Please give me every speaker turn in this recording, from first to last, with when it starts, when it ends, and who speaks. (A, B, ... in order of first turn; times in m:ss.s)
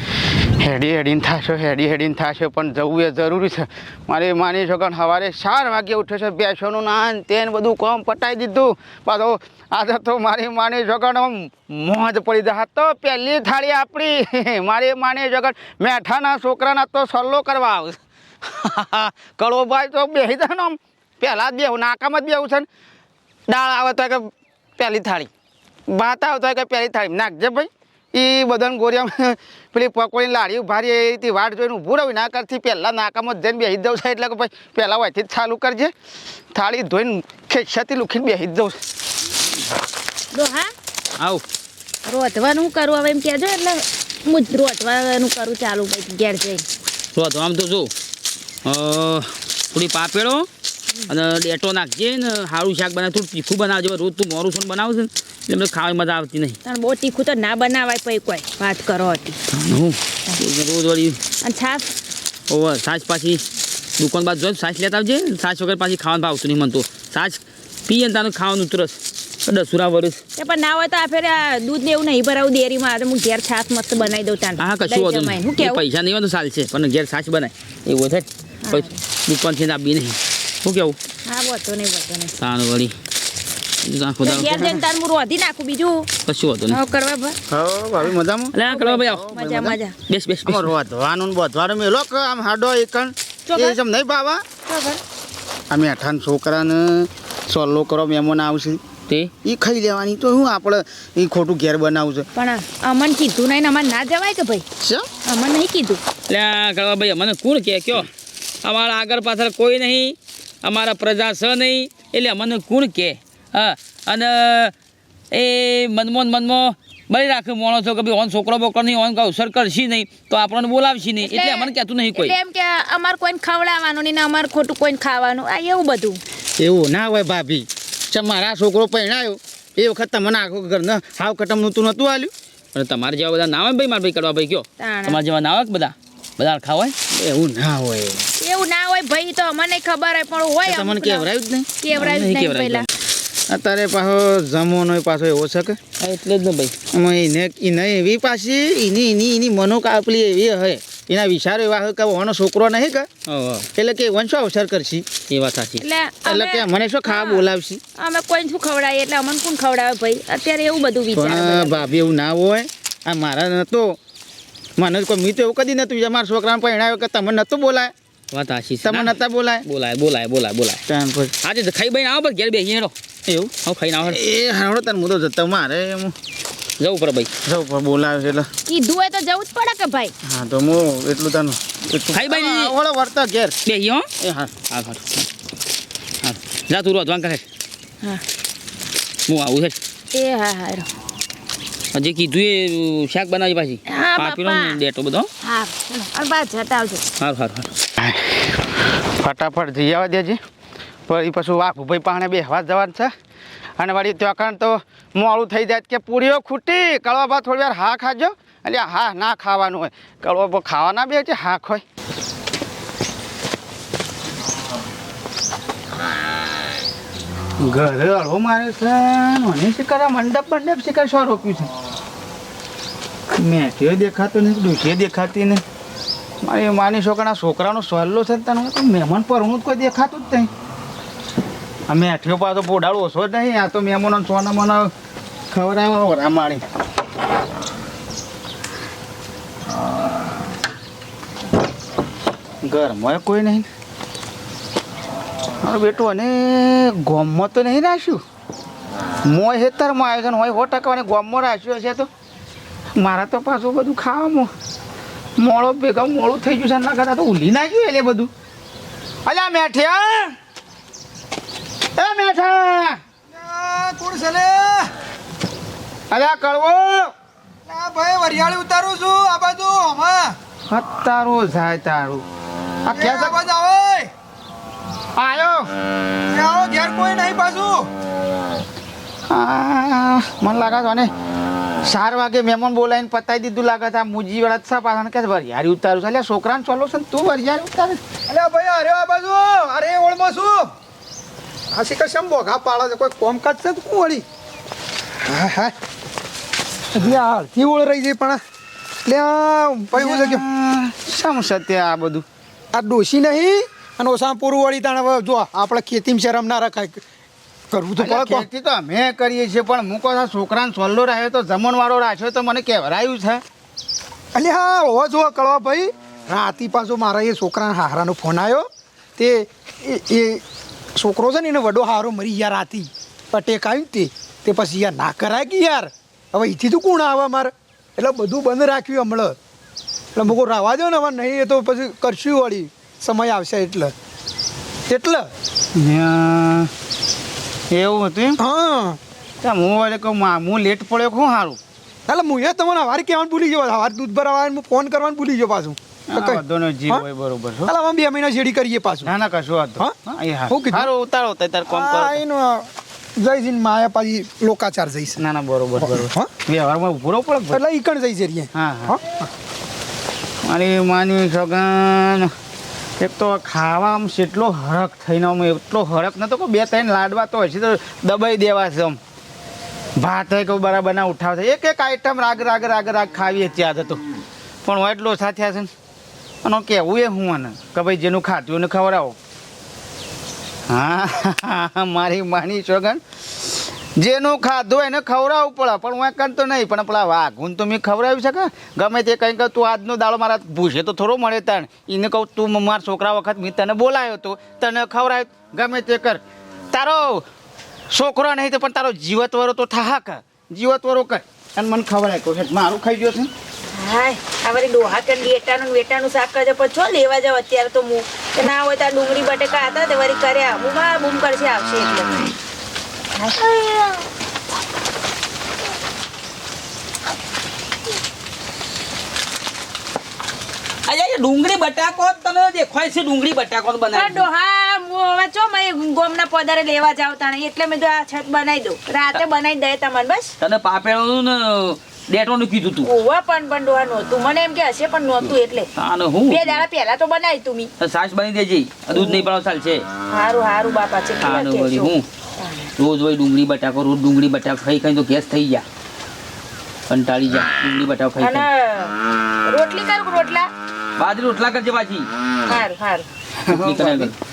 0:00.6-0:22.7 A
0:23.5-0:25.3 A
0:25.9-0:35.9 A
0:36.5-0:38.8 A
0:40.3-0:40.7 B
0:42.0-0:46.6 B
0:47.1-0:47.9 C
0:48.6-0:50.5 C
0:51.1-0:56.6 C
0:56.6-0:59.4 B
0:59.5-1:01.2 C
1:01.4-1:01.9 B
1:02.5-1:03.4 C
1:04.0-1:10.2 C
1:10.4-1:15.8 B
1:14.6-1:21.0 C
1:18.6-1:19.0 B
1:21.2-1:22.3 B
1:22.4-1:22.9 C
1:23.8-1:24.6 C
1:24.2-1:26.1 B
1:26.2-1:26.8 C
1:26.7-1:27.4 B
1:27.5-1:28.5 A
1:28.5-1:30.7 C
1:28.7-1:29.9 B
1:29.2-1:29.7 A
1:30.4-1:34.4 A
1:33.5-1:33.8 B
1:34.6-1:35.0 B
1:35.7-1:38.8 A
1:39.4-1:42.3 A
1:42.3-1:44.6 B
1:44.8-1:45.1 A
1:45.2-1:46.0 B
1:46.3-1:48.1 C
1:48.6-1:54.7 C
1:55.3-2:02.3 C
2:01.2-2:06.2 B
2:06.6-2:12.3 A
2:12.7-2:16.9 C
2:14.8-2:15.2 B
2:17.1-2:18.2 A
2:18.4-2:21.2 B
2:20.6-2:21.7 A
2:21.8-2:22.9 B
2:21.9-2:22.9 C
2:23.5-2:25.8 A
2:26.0-2:26.7 C
2:26.9-2:33.1 A
2:33.3-2:33.7 C
2:33.7-2:35.1 A
2:35.3-2:35.8 C
2:35.8-2:37.4 B
2:36.2-2:37.8 A
2:38.0-2:41.9 B
2:41.1-2:44.0 A
2:44.8-2:47.9 A
2:48.3-2:50.8 C
2:48.8-2:49.6 A
2:50.9-2:51.3 A
2:51.4-2:52.9 C
2:53.3-2:56.1 A
2:53.6-2:54.2 C
2:56.8-2:57.3 C
2:57.4-2:58.5 A
2:58.7-3:00.1 B
3:00.2-3:03.6 A
3:02.1-3:02.7 C
3:03.6-3:05.2 C
3:04.2-3:04.5 A
3:06.2-3:07.4 C
3:09.3-3:09.8 C
3:10.1-3:10.9 B
3:11.9-3:15.3 C
3:13.9-3:14.8 B
3:15.4-3:17.0 B
3:17.2-3:17.7 C
3:18.0-3:20.4 A
3:21.1-3:23.1 A
3:23.8-3:31.8 A
3:37.6-3:41.7 A
3:43.3-3:45.6 A
3:46.4-3:50.5 A
3:51.9-3:54.9 A
3:55.5-3:56.6 A
4:02.6-4:03.7 A
4:05.6-4:08.2 A
4:09.2-4:12.1 A
4:13.0-4:14.5 A
4:15.4-4:18.3 A
4:19.2-4:20.4 A
4:21.9-4:23.0 A
4:23.3-4:24.9 D
4:26.1-4:27.1 A
4:27.7-4:30.4 D
4:30.7-4:32.2 A
4:32.8-4:33.4 A
4:32.9-4:34.1 D
4:35.1-4:35.7 A
4:36.3-4:37.9 D
4:39.3-4:41.1 A
4:41.8-4:48.0 A
4:48.3-4:50.7 D
4:51.7-4:54.2 D
4:55.2-4:55.7 D
4:56.9-4:58.4 D
4:59.0-5:00.4 D
4:59.9-5:02.2 A
5:02.7-5:07.0 D
5:07.7-5:08.5 D
5:08.0-5:13.4 A
5:14.3-5:20.4 D
5:21.0-5:29.4 D
5:30.1-5:33.9 D
5:34.9-5:35.3 D
5:35.7-5:36.7 A
5:37.7-5:38.4 A
5:38.4-5:39.0 D
5:39.4-5:41.6 A
5:42.1-5:47.0 D
5:46.1-5:47.7 A
5:47.7-5:49.1 D
5:49.0-5:52.2 A
5:50.5-5:50.9 D
5:51.7-5:55.2 D
5:55.2-5:57.6 A
5:55.8-5:56.3 D
5:57.5-5:59.3 D
5:58.5-5:59.0 A
6:00.4-6:02.3 A
6:03.0-6:09.0 A
6:10.0-6:14.0 A
6:14.6-6:15.7 A
6:16.4-6:19.2 A
6:20.7-6:36.2 A
6:36.7-6:37.2 A
6:37.9-6:43.3 A
6:43.7-6:52.3 B
6:53.1-6:54.0 B
7:00.9-7:04.2 C
7:03.9-7:10.3 B
7:10.4-7:12.9 C
7:12.8-7:15.7 B
7:15.2-7:16.6 C
7:16.3-7:17.7 B
7:17.8-7:19.8 C
7:20.1-7:22.7 B
7:21.2-7:22.0 C
7:22.8-7:25.6 C
7:26.9-7:28.5 C
7:28.2-7:28.9 B
7:29.5-7:30.5 B
7:31.0-7:32.1 C
7:32.5-7:33.1 B
7:33.4-7:34.1 A
7:33.5-7:34.1 C